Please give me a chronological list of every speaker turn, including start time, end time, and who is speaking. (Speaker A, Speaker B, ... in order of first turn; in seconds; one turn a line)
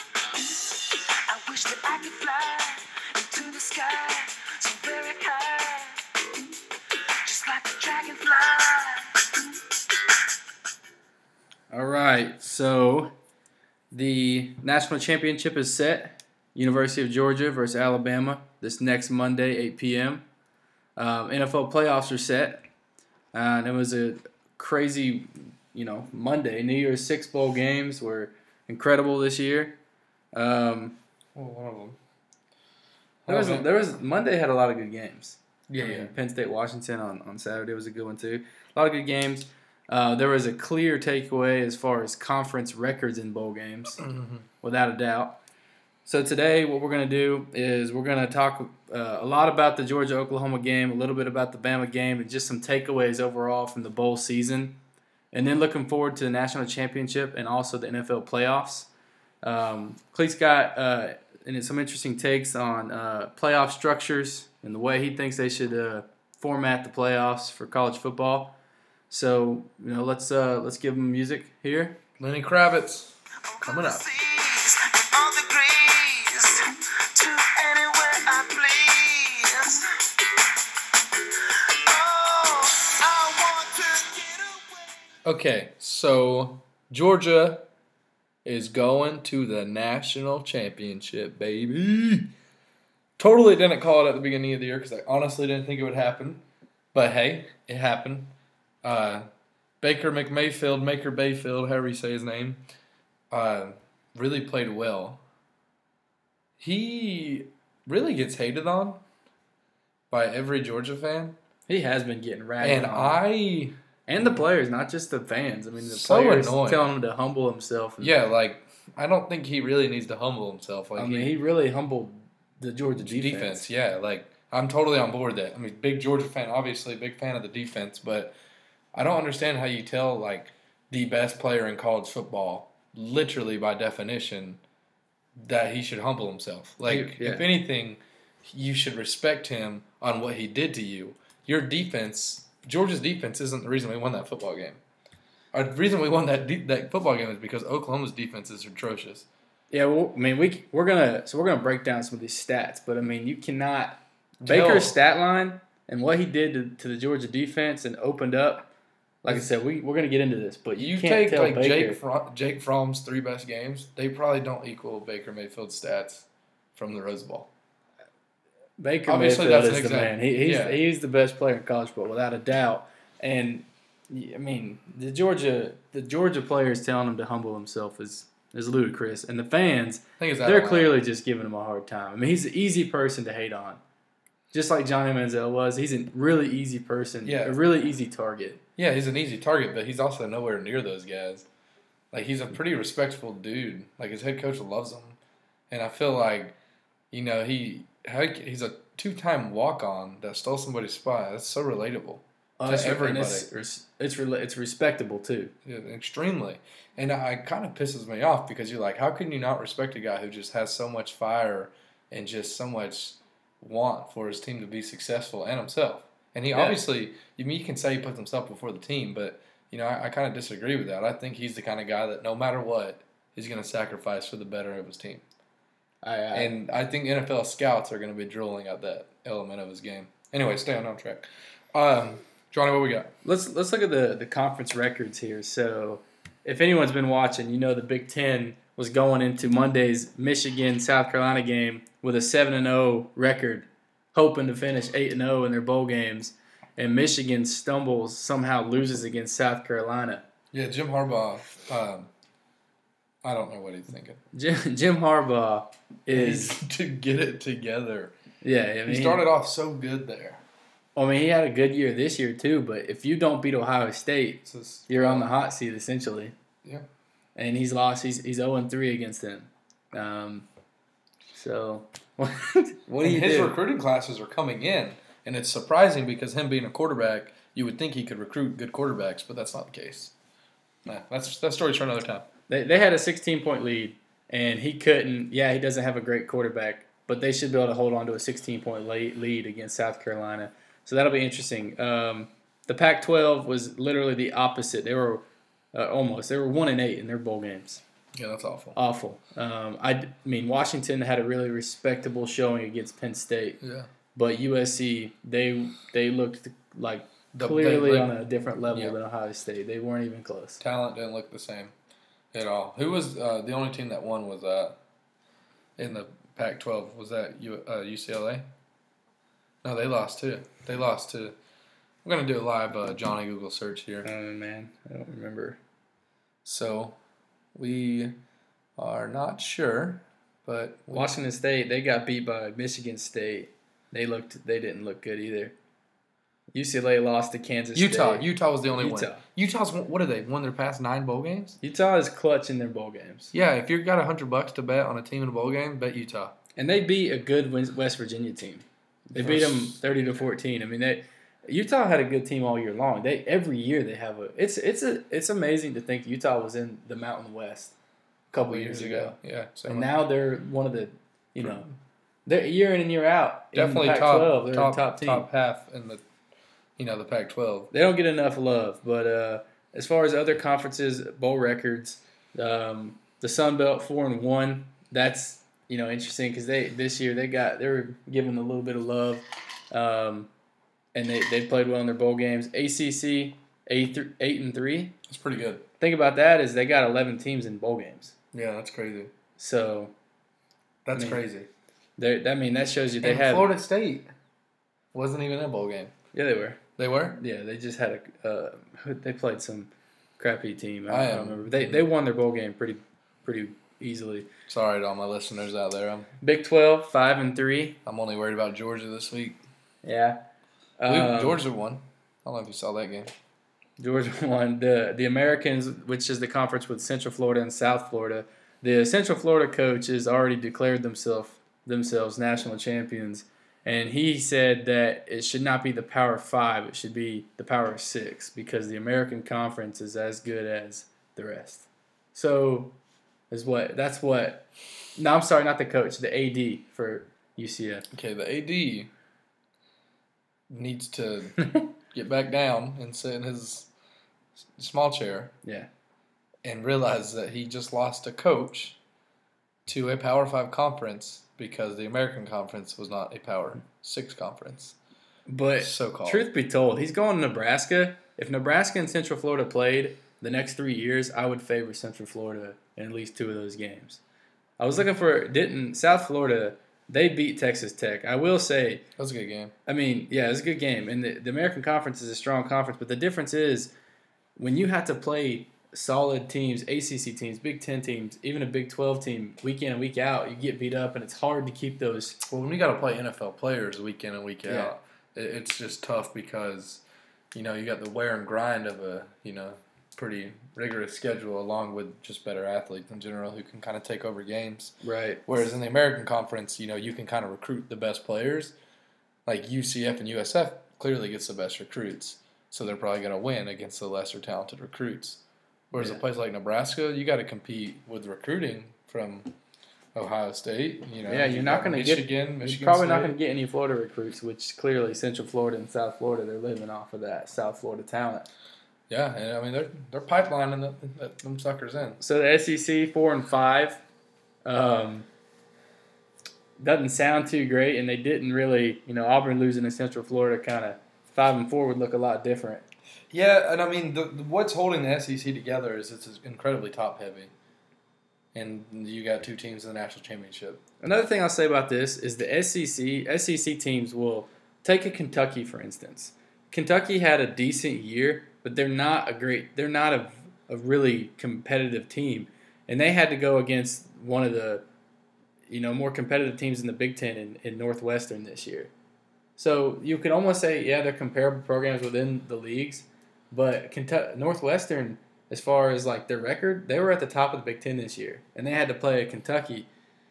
Speaker A: 0.5-6.4
Speaker A: 7.2-9.5
Speaker B: 11.7-13.1
Speaker B: 13.9-20.2
Speaker B: 20.9-22.6
Speaker B: 23.3-29.7
Speaker B: 30.3-30.9
Speaker C: 31.3-32.0
Speaker C: 33.2-33.6
Speaker B: 33.3-44.0
Speaker C: 35.7-36.1
Speaker C: 44.0-44.5
Speaker B: 44.6-45.4
Speaker B: 46.0-54.8
Speaker B: 55.3-58.9
Speaker B: 59.4-68.5
Speaker B: 69.1-72.0
Speaker C: 72.2-73.1
Speaker A: 73.5-79.9
Speaker C: 73.6-74.0
Speaker A: 81.3-84.9
Speaker C: 85.2-87.7
Speaker C: 88.4-92.3
Speaker C: 93.2-96.4
Speaker C: 96.9-99.2
Speaker C: 99.8-102.6
Speaker C: 103.3-105.2
Speaker C: 106.6-109.0
Speaker C: 110.1-111.4
Speaker B: 111.7-113.2
Speaker C: 112.6-114.4
Speaker B: 114.1-118.1
Speaker C: 115.8-116.9
Speaker C: 118.0-121.3
Speaker B: 121.0-123.6
Speaker C: 123.0-128.3
Speaker C: 128.9-134.6
Speaker C: 135.4-144.8
Speaker B: 136.8-137.5
Speaker C: 145.5-149.2
Speaker B: 149.7-158.7
Speaker C: 154.4-154.9
Speaker B: 159.2-162.0
Speaker C: 160.8-167.5
Speaker B: 168.8-183.8
Speaker C: 169.1-170.8
Speaker C: 180.2-180.9
Speaker B: 184.5-188.6
Speaker C: 187.2-187.6
Speaker C: 188.8-191.4
Speaker C: 192.1-195.2
Speaker C: 195.7-196.6
Speaker C: 197.1-203.5
Speaker B: 202.6-205.5
Speaker C: 205.7-225.2
Speaker B: 216.5-216.8
Speaker B: 226.0-226.5
Speaker C: 226.3-233.1
Speaker B: 233.2-250.2
Speaker C: 250.5-252.1
Speaker C: 253.2-254.2
Speaker B: 254.3-256.6
Speaker C: 256.1-258.1
Speaker B: 258.4-259.2
Speaker C: 258.9-260.4
Speaker B: 260.9-266.3
Speaker C: 264.4-265.3
Speaker B: 267.4-270.5
Speaker B: 271.3-273.5
Speaker C: 273.0-280.1
Speaker C: 280.8-282.2
Speaker B: 282.5-295.2
Speaker B: 295.7-297.8
Speaker C: 298.1-298.8
Speaker B: 298.7-303.6
Speaker C: 303.6-303.9
Speaker B: 304.1-310.6
Speaker C: 307.3-308.1
Speaker C: 308.7-308.9
Speaker C: 310.6-311.7
Speaker C: 312.3-314.8
Speaker C: 315.8-318.4
Speaker C: 319.6-321.3
Speaker C: 322.0-324.1
Speaker B: 324.0-325.6
Speaker C: 326.4-327.0
Speaker C: 327.5-328.2
Speaker C: 328.8-331.1
Speaker B: 330.9-335.5
Speaker B: 336.5-339.2
Speaker C: 337.7-341.6
Speaker B: 341.6-343.3
Speaker C: 343.3-346.3
Speaker B: 346.6-357.7
Speaker C: 349.1-350.0
Speaker B: 358.3-359.2
Speaker C: 358.4-359.9
Speaker B: 359.7-361.7
Speaker B: 362.2-365.3
Speaker C: 363.5-366.0
Speaker C: 366.8-367.7
Speaker B: 367.7-380.3
Speaker B: 380.9-384.9
Speaker C: 385.1-385.6
Speaker B: 385.8-388.1
Speaker C: 388.3-389.1
Speaker B: 389.4-389.9
Speaker C: 390.8-391.5
Speaker B: 390.9-391.2
Speaker B: 392.0-393.5
Speaker C: 393.0-394.1
Speaker C: 394.9-395.9
Speaker B: 396.1-396.6
Speaker C: 396.8-397.2
Speaker B: 397.2-404.3
Speaker C: 400.9-401.9
Speaker C: 404.5-406.1
Speaker B: 406.2-407.8
Speaker C: 407.9-409.4
Speaker B: 409.8-410.2
Speaker B: 410.8-411.4
Speaker C: 410.9-413.1
Speaker B: 413.8-432.7
Speaker B: 433.3-434.4
Speaker B: 434.9-437.9
Speaker C: 437.9-438.9
Speaker C: 440.5-443.7
Speaker C: 444.6-445.3
Speaker C: 446.4-448.8
Speaker C: 449.6-454.8
Speaker B: 455.3-464.0
Speaker C: 455.6-456.2
Speaker B: 464.6-468.8
Speaker C: 469.0-469.5
Speaker B: 469.6-473.7
Speaker B: 474.4-482.2
Speaker C: 482.2-486.8
Speaker B: 484.4-484.7
Speaker C: 487.3-498.5
Speaker B: 494.8-495.2
Speaker C: 499.2-509.3
Speaker C: 509.9-513.1
Speaker B: 511.1-518.3
Speaker C: 518.9-522.0
Speaker B: 522.0-523.8
Speaker B: 524.5-525.0
Speaker B: 526.6-532.6
Speaker C: 533.1-537.3
Speaker C: 538.3-540.6
Speaker B: 540.8-554.6
Speaker B: 555.5-558.7
Speaker B: 559.4-569.7